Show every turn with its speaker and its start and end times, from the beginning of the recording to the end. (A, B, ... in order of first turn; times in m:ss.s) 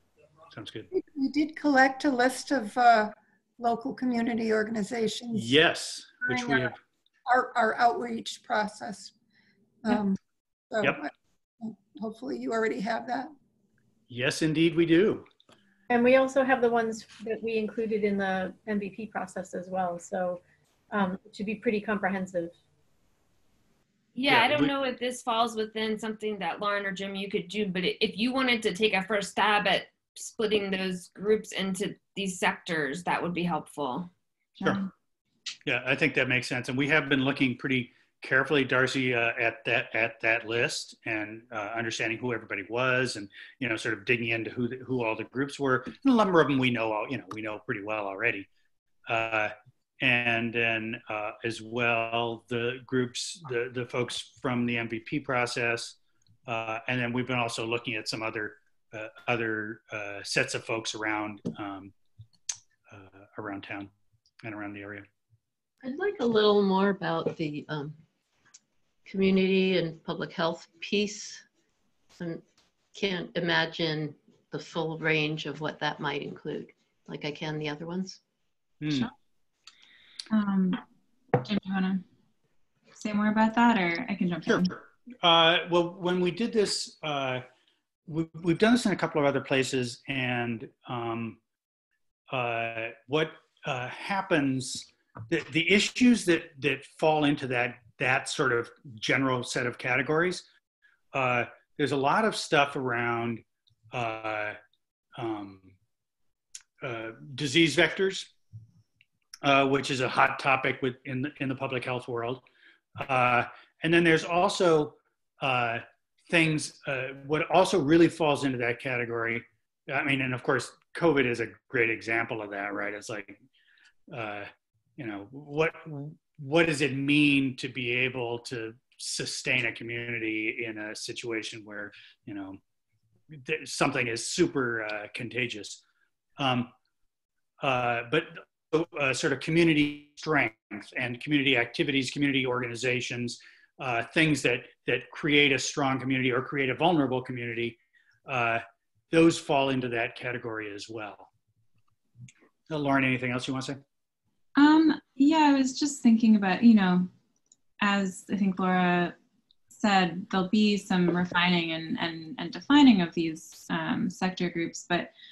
0:00.5-0:00.9 A
0:00.9-0:05.6 B
0:05.3-0:06.7 A
0:06.2-0:06.7 B
0:07.3-0:09.1 B
0:09.8-0:10.2 B
0:10.7-0:13.3 B
0:14.1-0:15.2 A
0:15.9-0:22.6 C
0:24.1-0:34.1 D
0:24.3-0:24.7 A
0:34.6-0:34.9 E
0:35.6-0:48.5 A
0:49.1-1:01.9 A
1:02.9-1:03.9 A
1:04.4-1:05.0 A
1:05.8-1:08.0 F
1:09.0-1:11.4 F
1:12.2-1:12.4 F
1:12.9-1:18.2 F
1:18.8-1:19.1 A
1:20.3-1:20.8 E
1:21.4-1:22.0 E
1:23.0-1:24.7 E
1:24.4-1:27.4 A
1:28.1-1:31.4 A
1:32.3-1:40.4 A
1:41.1-1:44.6 A
1:45.2-1:45.7 A
1:46.8-1:48.3 A
1:49.4-1:52.4 A
1:53.0-2:03.4 A
2:04.1-2:12.6 A
2:13.3-2:15.8 A
2:16.4-2:16.7 A
2:17.6-2:31.3 A
2:32.7-2:33.8 A
2:34.6-2:37.1 E
2:37.8-2:39.1 E
2:39.7-2:45.1 E